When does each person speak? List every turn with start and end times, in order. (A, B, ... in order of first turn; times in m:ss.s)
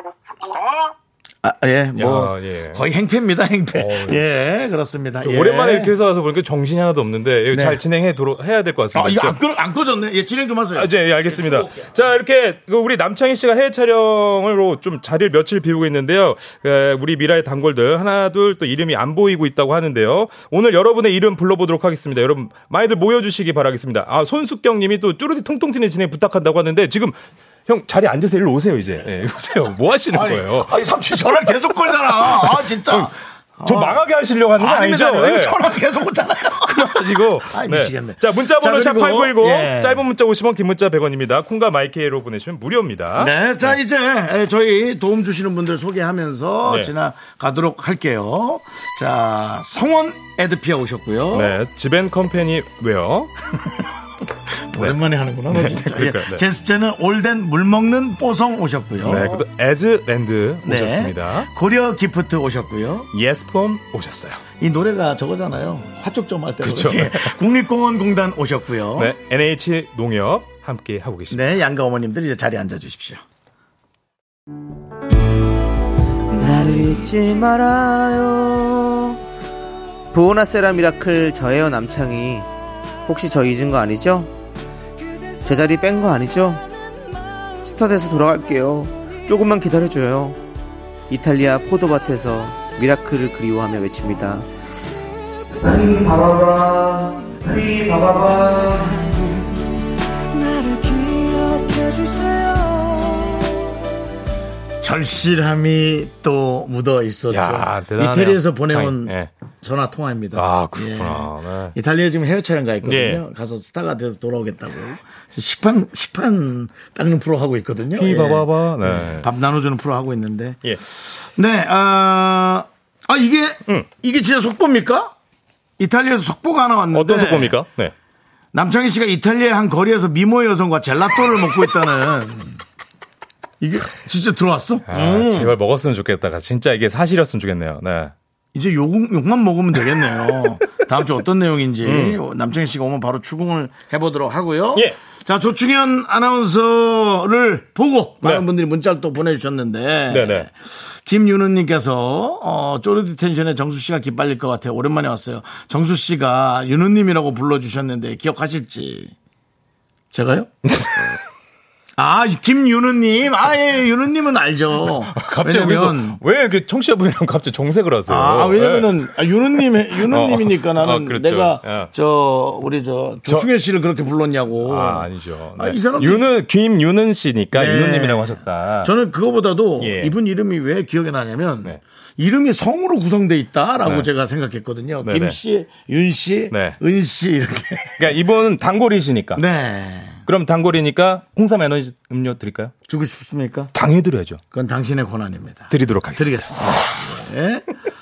0:01.4-0:05.9 A
0:02.0-0:02.8 B
0:03.7-0:04.2 B
0:05.2-0:09.4 B
0:07.5-0:07.8 A
0:08.9-0:11.9 A
0:10.7-0:30.7 B
0:30.1-0:34.0 A
0:31.8-0:33.1 B
0:33.6-0:35.6 B
0:34.6-0:40.0 A
0:36.5-0:43.7 B
0:43.2-0:51.6 A
0:46.7-0:46.9 B
0:51.3-0:53.3 B
0:54.7-0:59.4 A
0:55.5-0:56.4 B
0:59.0-1:01.5 B
1:00.6-1:03.1 A
1:03.1-1:04.4 B
1:04.6-1:09.1 A
1:06.6-1:07.4 B
1:08.9-1:11.4 B
1:11.3-1:13.2 A
1:16.3-1:19.2 C
1:20.1-1:22.5 C
1:23.1-1:24.3 C
1:25.4-1:26.6 C
1:27.6-1:30.4 C
1:31.1-1:34.5 C
1:35.6-1:39.1 C
1:40.9-1:43.3 D
1:44.8-2:00.6 A
1:47.3-1:49.3 B
1:50.4-1:51.8 B
1:52.8-1:53.2 B
1:57.9-1:59.3 B
2:01.4-2:05.1 A
2:05.8-2:07.6 A
2:06.9-2:07.9 B
2:08.5-2:12.6 A
2:13.6-2:15.5 A
2:14.9-2:18.1 B
2:18.5-2:30.5 A
2:21.8-2:22.2 B
2:30.1-2:30.5 B
2:31.0-2:39.1 A
2:40.1-2:40.5 A
2:40.7-2:41.1 B
2:42.0-2:46.2 A
2:45.0-2:49.1 B
2:48.1-2:56.2 A
2:50.0-2:51.9 B
2:54.6-2:58.9 B
2:57.5-3:08.1 A
2:59.8-3:00.1 B
3:05.0-3:05.4 B
3:06.5-3:06.8 B
3:08.0-3:09.4 B
3:09.4-3:10.2 A
3:10.3-3:12.7 B
3:12.9-3:13.7 A
3:13.7-3:14.4 B
3:14.5-3:17.7 A
3:15.7-3:16.8 B